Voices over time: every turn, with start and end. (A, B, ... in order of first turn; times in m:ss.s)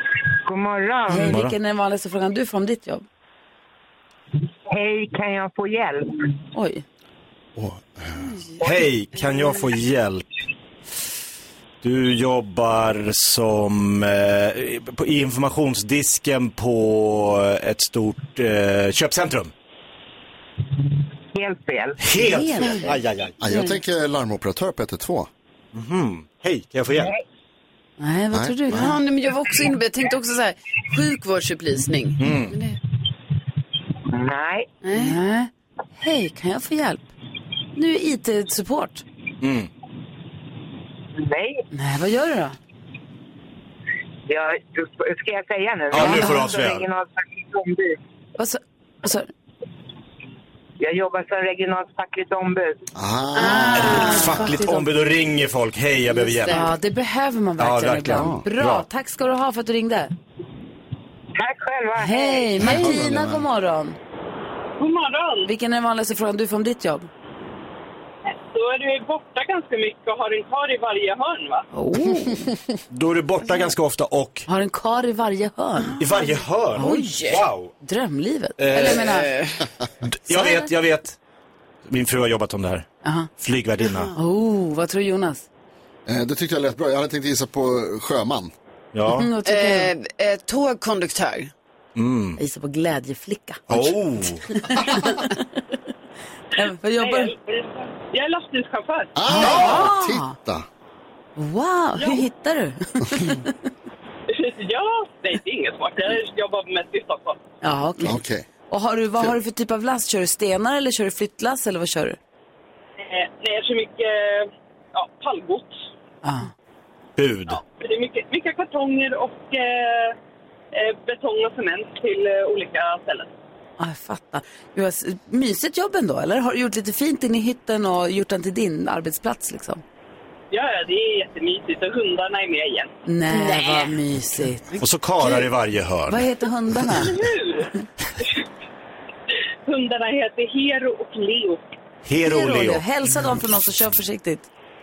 0:00.5-0:01.4 A
0:01.1-0:03.0 B
0:01.3-0:01.5 C
0:04.7-0:06.4 A
0:06.5-0:06.8 B
0:07.6-0:08.2 D
0:08.6-0:10.2 C
0:11.8-0:19.5 C
0:21.3-0:22.2 A
0:22.0-0:23.4 C
0:22.2-0:22.8 B
0:23.4-0:25.3 D
0:25.7-0:27.1 C
0:27.0-0:27.2 A
0:28.0-0:29.0 B
0:28.3-0:28.9 D
0:28.7-0:32.8 E
0:32.2-0:32.6 C
0:34.1-0:34.7 A
0:34.8-0:35.2 E
0:34.9-0:37.1 B
0:37.8-0:39.0 B
0:39.4-0:39.7 C
0:41.2-0:41.6 A
0:41.7-0:42.6 B
0:44.3-0:48.0 A
0:45.9-0:46.9 C
0:46.0-0:46.4 B
0:48.4-0:49.3 B
0:50.8-0:52.9 A
0:53.0-0:54.2 D
0:53.4-0:54.4 E
0:53.4-0:54.9 B
0:53.7-0:56.6 C
0:56.1-0:56.7 E
0:56.5-1:00.1 B
0:57.6-0:58.8 C
0:58.1-0:58.4 D
1:01.4-1:02.7 A
1:02.0-1:04.0 B
1:02.6-1:03.5 D
1:04.8-1:05.5 F
1:05.4-1:07.1 B
1:08.3-1:11.7 F
1:11.7-1:12.5 B
1:12.9-1:14.5 C
1:14.5-1:16.0 B
1:15.9-1:17.4 E
1:16.0-1:17.7 C
1:16.8-1:17.2 B
1:17.8-1:19.3 B
1:18.6-1:19.2 C
1:18.7-1:19.7 E
1:20.0-1:21.2 C
1:20.3-1:20.7 B
1:21.9-1:24.1 C
1:23.0-1:23.3 B
1:24.1-1:25.5 B
1:26.1-1:28.5 D
1:28.9-1:29.3 C
1:29.2-1:29.9 B
1:29.4-1:31.5 E
1:32.0-1:32.4 C
1:32.4-1:33.6 B
1:33.7-1:34.6 C
1:34.6-1:35.4 B
1:36.6-1:37.3 B
1:37.0-1:39.5 F
1:39.2-1:40.7 D
1:39.3-1:40.4 B
1:41.4-1:43.5 B
1:42.0-1:42.2 F
1:44.3-1:47.4 F
1:47.6-1:48.2 B
1:48.0-1:48.5 D
1:48.7-1:52.2 B
1:53.0-1:55.8 F
1:56.2-1:56.5 B
1:57.2-1:57.6 C
1:57.8-2:00.2 F
2:00.8-2:03.3 F
2:03.8-2:09.8 B
2:10.5-2:12.9 F
2:13.0-2:14.7 B
2:13.3-2:13.9 E
2:14.8-2:16.3 C
2:16.1-2:17.1 B
2:16.9-2:17.7 F
2:19.7-2:21.6 F
2:22.0-2:22.8 C
2:22.2-2:24.5 B